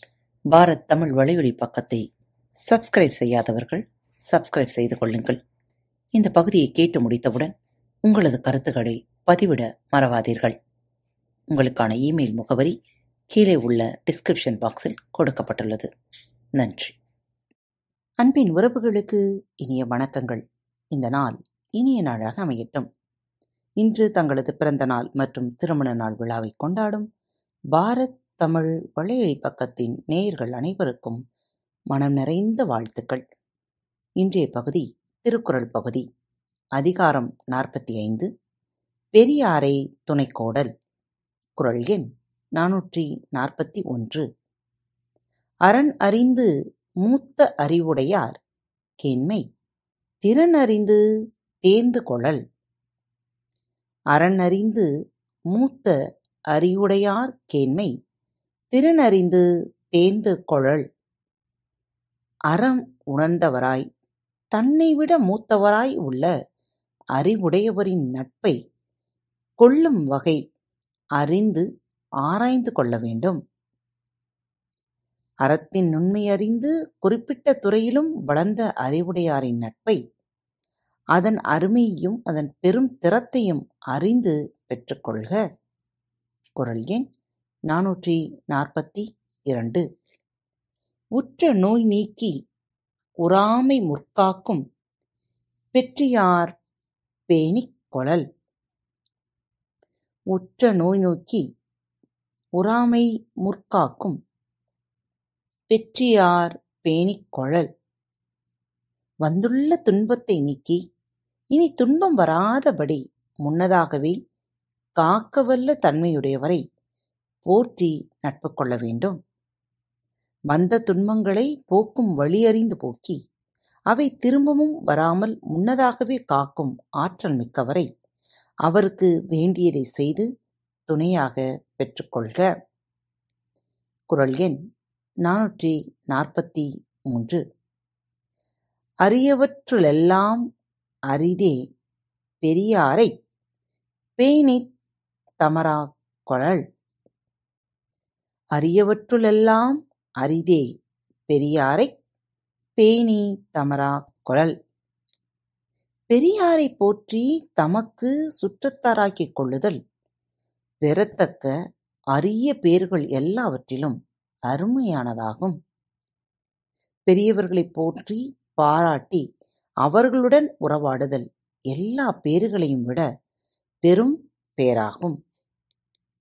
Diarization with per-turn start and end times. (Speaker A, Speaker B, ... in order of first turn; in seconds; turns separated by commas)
Speaker A: 0.5-2.0, Speaker A: 2.7-5.4, Speaker A: 6.2-7.5, Speaker A: 8.1-10.5, Speaker A: 11.5-12.7, Speaker A: 13.3-15.9, Speaker A: 16.6-16.9, Speaker A: 18.2-22.9, Speaker A: 23.8-27.1, Speaker A: 27.7-31.2, Speaker A: 31.9-33.2, Speaker A: 34.2-36.0, Speaker A: 36.8-38.3, Speaker A: 39.1-40.7, Speaker A: 41.6-42.0, Speaker A: 42.5-44.2, Speaker A: 45.7-46.5, Speaker A: 47.0-48.4, Speaker A: 49.0-49.4, Speaker A: 50.2-51.0, Speaker A: 51.6-52.4, Speaker A: 54.1-54.9, Speaker A: 55.5-55.9, Speaker A: 56.5-57.9, Speaker A: 58.7-59.4, Speaker A: 59.9-60.8, Speaker A: 62.5-63.8, Speaker A: 64.5-66.3, Speaker A: 67.2-68.5, Speaker A: 69.6-70.4, Speaker A: 71.2-71.6, Speaker A: 72.2-73.4, Speaker A: 75.4-80.0, Speaker A: 81.2-85.4, Speaker A: 86.6-87.0, Speaker A: 87.7-89.8, Speaker A: 91.2-92.3, Speaker A: 93.2-94.6, Speaker A: 95.7-96.5, Speaker A: 97.3-98.2, Speaker A: 100.3-101.4, Speaker A: 102.6-104.2, Speaker A: 105.7-107.7, Speaker A: 109.2-110.8, Speaker A: 111.5-114.1, Speaker A: 115.0-116.6, Speaker A: 117.5-119.2, Speaker A: 120.5-123.2, Speaker A: 123.9-127.9, Speaker A: 128.7-130.3, Speaker A: 130.9-132.4, Speaker A: 134.1-134.6, Speaker A: 135.2-137.4, Speaker A: 139.0-140.4, Speaker A: 141.1-141.5, Speaker A: 142.4-143.1, Speaker A: 144.2-144.6, Speaker A: 145.4-146.6, Speaker A: 148.6-150.7, Speaker A: 151.3-151.9, Speaker A: 152.8-154.5, Speaker A: 156.1-159.8, Speaker A: 160.8-161.5, Speaker A: 162.1-165.6, Speaker A: 167.1-169.2, Speaker A: 169.8-173.0, Speaker A: 173.8-175.2